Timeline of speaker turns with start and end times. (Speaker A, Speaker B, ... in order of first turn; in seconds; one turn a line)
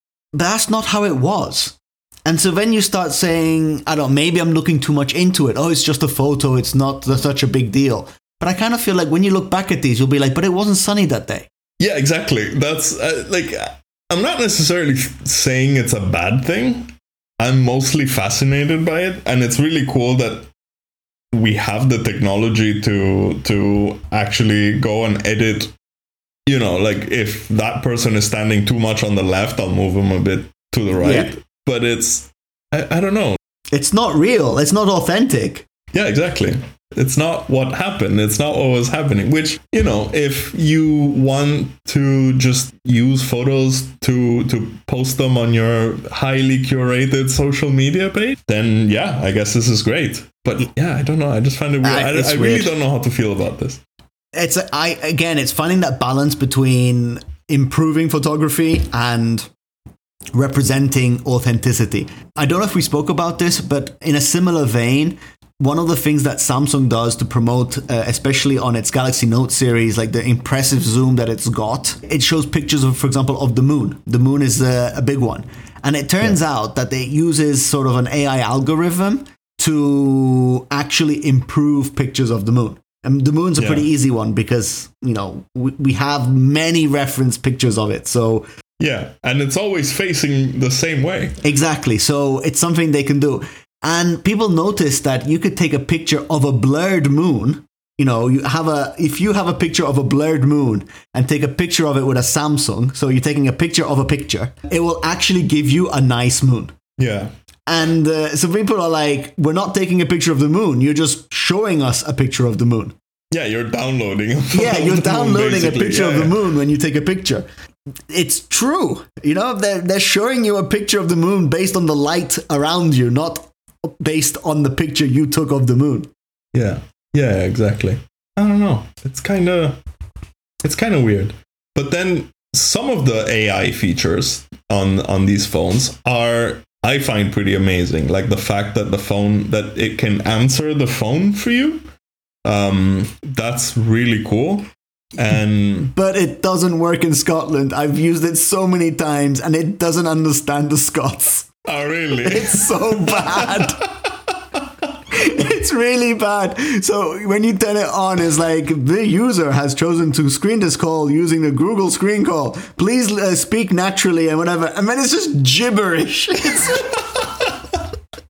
Speaker A: 0.3-11.5
Speaker B: 11.8-20.5
Speaker B: 21.3-25.7
Speaker B: 26.5-33.4
Speaker A: 31.0-31.3
Speaker A: 33.7-35.6
Speaker B: 35.9-53.8
Speaker A: 51.8-52.7
Speaker A: 54.3-59.5
Speaker A: 60.3-88.5
Speaker B: 83.6-83.9
Speaker B: 88.8-91.4
Speaker A: 91.4-106.8
Speaker B: 107.0-107.3
Speaker A: 107.7-112.9
Speaker B: 113.3-116.4
Speaker A: 114.5-117.5
Speaker A: 118.1-126.1
Speaker B: 126.5-129.8
Speaker B: 130.6-141.8
Speaker B: 142.4-145.9
Speaker A: 145.8-151.5
Speaker B: 151.7-154.6
Speaker A: 152.2-153.8
Speaker A: 155.1-167.3